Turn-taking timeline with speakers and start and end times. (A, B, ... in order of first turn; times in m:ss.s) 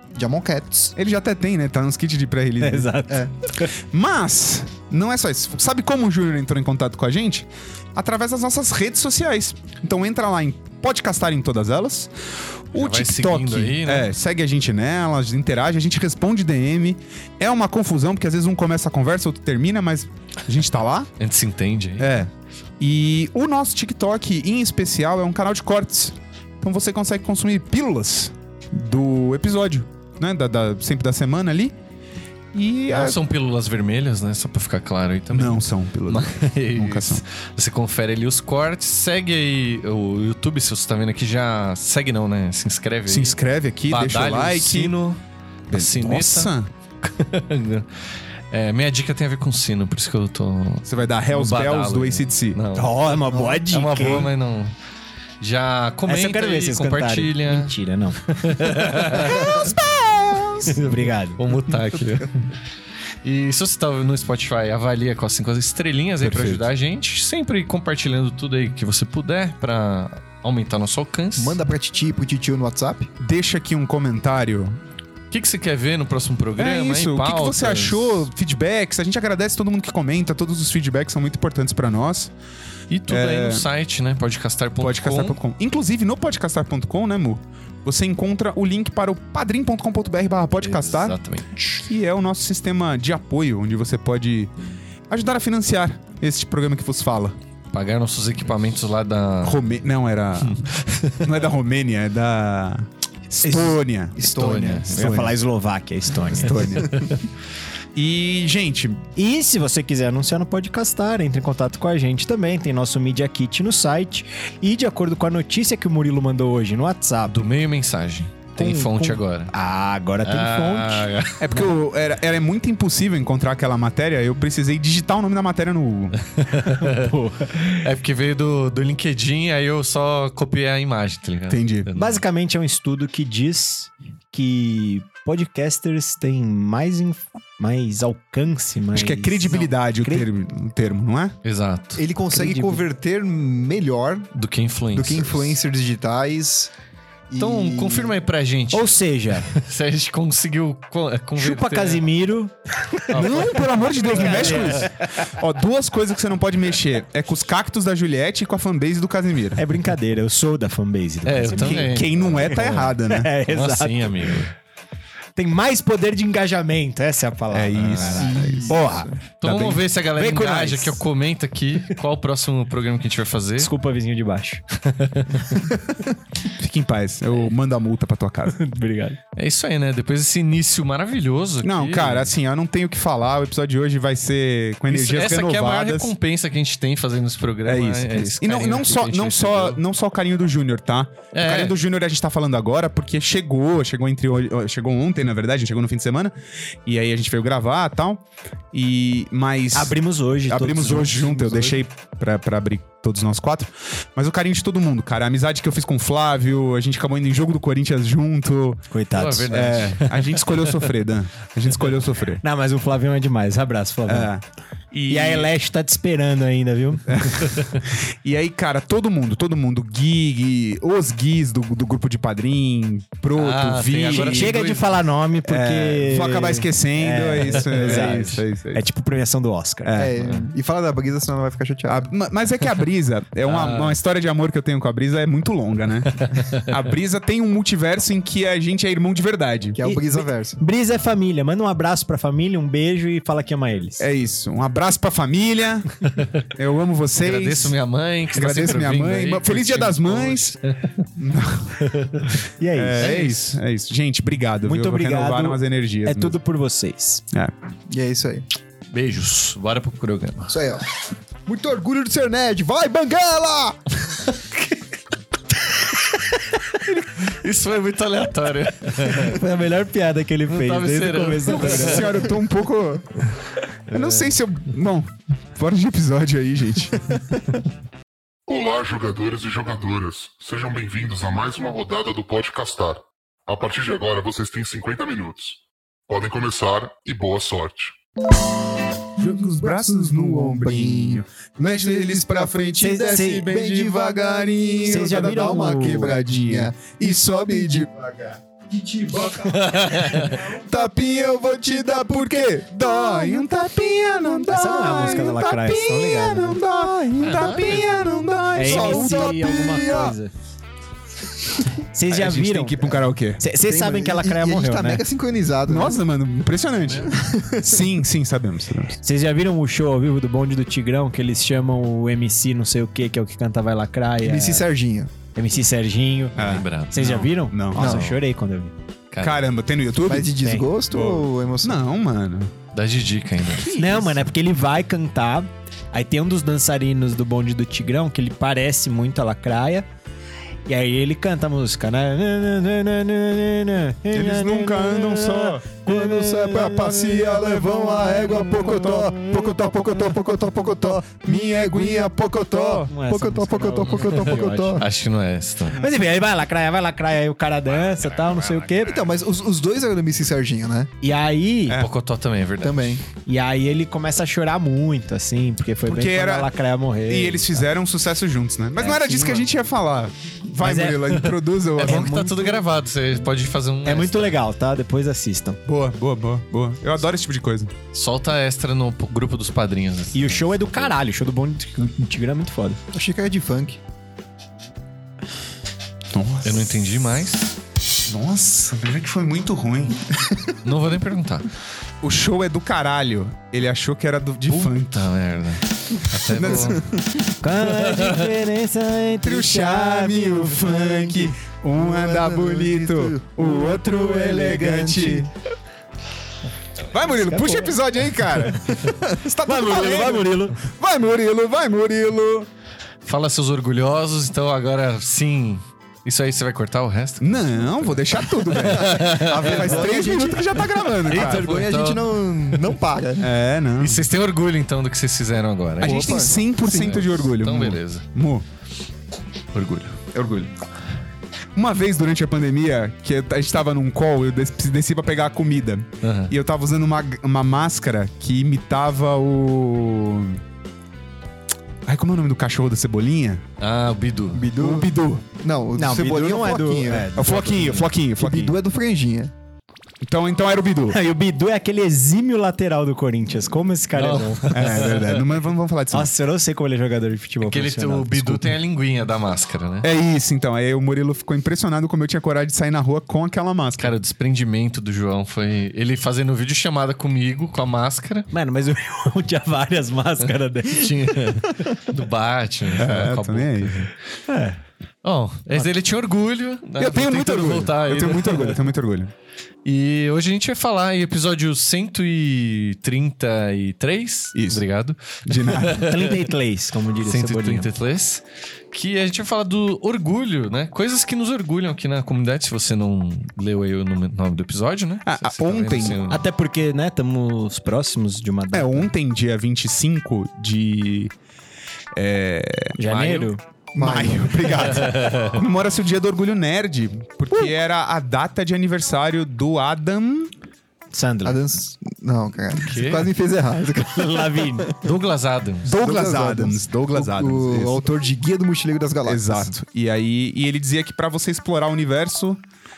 0:00.1-0:00.9 A
0:01.0-0:03.0 B
0:02.6-0:03.7 C
0:03.1-0:03.3 A
0:03.9-0:12.1 B
0:12.7-0:21.1 B
0:12.7-0:14.1 D
0:21.2-0:22.2 D
0:22.0-0:31.8 B
0:32.5-0:33.2 B
0:32.9-0:43.3 D
0:35.3-0:37.2 B
0:43.1-0:45.0 B
0:43.9-0:45.2 D
0:45.7-0:46.7 B
0:45.7-0:47.9 D
0:48.5-0:52.9 D
0:50.8-0:52.6 B
0:52.7-0:54.3 C
0:53.3-0:53.7 A
0:53.7-0:54.7 D
0:55.4-0:57.7 D
0:56.1-0:58.6 C
0:58.3-0:59.7 D
0:59.1-1:00.8 B
1:00.6-1:02.4 D
1:00.8-1:01.4 C
1:03.2-1:11.6 D
1:06.2-1:06.6 B
1:11.4-1:13.1 A
1:13.2-1:14.8 B
1:15.3-1:18.3 D
1:16.6-1:22.3 B
1:22.9-1:25.4 D
1:23.1-1:23.7 B
1:24.8-1:31.2 B
1:30.6-1:31.9 D
1:31.8-1:34.5 B
1:35.1-1:37.4 B
1:37.7-1:39.6 D
1:39.4-1:40.7 B
1:40.4-1:41.2 D
1:41.2-1:44.2 B
1:43.5-1:45.1 A
1:44.2-1:45.1 D
1:44.9-1:45.4 B
1:45.0-1:46.7 C
1:46.3-1:47.0 B
1:47.9-1:49.0 B
1:49.2-1:57.4 C
1:57.3-1:59.5 D
1:58.6-2:01.1 C
2:00.2-2:01.5 D
2:01.4-2:06.2 B
2:06.2-2:07.1 D
2:06.7-2:07.8 C
2:07.8-2:12.2 D
2:11.5-2:11.9 B
2:11.9-2:20.3 C
2:18.9-2:21.3 B
2:21.4-2:22.0 D
2:22.0-2:24.3 A
2:22.3-2:22.8 C
2:24.3-2:25.6 D
2:24.9-2:26.7 A
2:27.3-2:28.1 A
2:27.4-2:28.9 D
2:28.7-2:29.5 C
2:29.5-2:32.0 D
2:31.4-2:35.3 C
2:33.1-2:34.8 D
2:33.1-2:39.6 B
2:39.6-2:44.4 C
2:41.2-2:42.9 D
2:41.5-2:43.3 B
2:43.4-2:44.5 D
2:45.4-2:51.0 C
2:47.5-2:48.9 B
2:47.8-2:48.1 D
2:48.2-2:49.2 A
2:49.4-2:53.7 D
2:49.4-2:49.8 B
2:53.6-2:54.6 C
2:54.9-2:55.6 D
2:56.6-2:58.6 B
2:58.5-2:59.2 C
2:59.4-3:02.3 D
3:01.6-3:06.1 B
3:04.9-3:09.8 D
3:07.6-3:16.3 B
3:11.3-3:11.7 D
3:16.8-3:28.8 B
3:19.7-3:21.8 C
3:28.9-3:29.6 C
3:29.1-3:30.9 D
3:29.5-3:32.4 B
3:32.4-3:34.3 C
3:34.1-3:35.5 B
3:35.1-3:37.5 C
3:37.1-3:44.6 B
3:43.3-3:44.9 D
3:44.1-3:50.1 C
3:45.4-3:48.8 B
3:47.5-3:48.2 D
3:49.8-3:50.2 B
3:50.0-3:52.1 A
3:50.2-3:50.4 D
3:51.9-3:59.8 B
3:53.4-3:54.0 D
3:56.2-3:56.6 D
3:59.8-4:00.6 A
3:59.8-4:04.1 C
4:04.0-4:05.9 B
4:06.5-4:07.8 B
4:07.2-4:10.9 D
4:08.3-4:10.6 B
4:11.2-4:11.8 B
4:11.8-4:12.3 D
4:12.6-4:13.2 C
4:12.7-4:16.4 B
4:13.0-4:13.6 D
4:14.6-4:17.2 C
4:17.9-4:18.4 A
4:18.9-4:20.5 D
4:20.5-4:20.9 A
4:21.4-4:24.2 A
4:26.8-4:29.4 D
4:29.1-4:32.3 C
4:30.5-4:32.2 D
4:31.5-4:33.1 B
4:33.9-4:37.0 B
4:33.9-4:34.4 D
4:38.5-4:47.9 E
4:49.2-5:10.2 B
4:49.4-4:51.2 A
4:52.3-4:54.3 A
4:52.8-4:53.5 C
4:54.8-4:57.8 A
4:54.8-4:56.1 C
4:59.6-5:00.4 D
5:01.9-5:02.3 A
5:04.5-5:06.6 C
5:07.2-5:08.1 D
5:08.5-5:10.3 C
5:08.6-5:10.0 A
5:11.9-5:15.0 C
5:12.1-5:13.4 B
5:13.6-5:16.0 A
5:15.6-5:18.9 B
5:17.1-5:17.8 A
5:19.0-5:24.7 C
5:24.2-5:25.1 A
5:25.3-5:28.7 C
5:26.3-5:28.0 B
5:26.4-5:27.2 D
5:27.8-5:28.1 A
5:29.1-5:29.4 D
5:29.2-5:30.3 B
5:30.0-5:31.8 A
5:30.4-5:30.7 C
5:30.9-5:32.5 B
5:32.7-5:34.0 D
5:33.6-5:34.2 B
5:33.7-5:39.9 C
5:40.7-5:50.1 C
5:44.1-5:45.6 B
5:45.8-5:54.8 A
5:48.6-5:48.9 B
5:50.8-5:52.9 B
5:52.9-5:54.8 C
5:53.9-5:55.8 D
5:55.7-5:59.0 C
5:58.9-6:00.9 A
6:01.0-6:01.8 C
6:01.7-6:03.0 D
6:02.6-6:03.0 A
6:03.2-6:07.6 C
6:05.8-6:06.5 B
6:07.1-6:12.1 B
6:08.8-6:09.4 C
6:10.6-6:12.6 C
6:11.8-6:14.4 D
6:13.8-6:15.6 C
6:15.6-6:17.7 B
6:17.9-6:20.9 D
6:20.1-6:22.8 C
6:22.9-6:23.8 A
6:26.1-6:26.8 B
6:26.4-6:27.6 D
6:28.0-6:30.0 B
6:30.6-6:31.5 D
6:32.0-6:34.9 B
6:34.5-6:36.8 D
6:36.3-6:36.8 B
6:36.4-6:36.8 A
6:37.4-6:41.3 C
6:37.7-6:38.3 D
6:39.2-6:45.3 B
6:41.7-6:45.3 A
6:46.9-6:52.5 B
6:47.2-6:47.7 C
6:48.8-6:49.2 A
6:49.4-6:50.6 C
6:53.0-7:00.0 D
6:57.2-7:01.5 B
6:58.7-7:03.3 A
7:01.0-7:02.7 D
7:03.2-7:04.1 B
7:03.8-7:08.0 D
7:05.8-7:08.4 B
7:05.8-7:06.9 A
7:09.5-7:10.0 D
7:10.1-7:10.5 B
7:11.5-7:20.4 B
7:16.0-7:16.3 D
7:21.8-7:23.4 B
7:23.6-7:24.5 D
7:24.3-7:27.1 A
7:24.5-7:25.2 B
7:25.7-7:27.9 C
7:27.1-7:28.6 B
7:28.2-7:29.3 A
7:30.0-7:31.0 B
7:30.9-7:34.7 C
7:33.9-7:35.2 D
7:34.5-7:36.1 B
7:35.9-7:38.6 C
7:37.4-7:39.9 D
7:39.8-7:43.9 B
7:43.8-7:48.3 D
7:48.3-7:51.7 C
7:50.6-7:53.9 D
7:52.7-7:53.9 B
7:54.3-7:54.6 C
7:55.0-7:58.6 D
7:56.8-7:59.1 B
7:59.6-8:06.2 D
8:04.3-8:04.6 B
8:05.2-8:05.8 B
8:05.7-8:07.7 C
8:07.0-8:16.2 D
8:15.0-8:16.0 B
8:16.1-8:18.9 C
8:18.5-8:21.1 B
8:21.9-8:22.8 B
8:22.8-8:23.4 C
8:22.9-8:23.3 D
8:23.7-8:24.6 A
8:23.8-8:30.3 B
8:24.6-8:25.4 D
8:30.9-8:31.4 C
8:31.2-8:34.8 A
8:32.6-8:33.1 D
8:33.9-8:34.7 C
8:34.8-8:35.7 D
8:35.6-8:37.9 B
8:35.7-8:39.5 A
8:39.0-8:42.4 B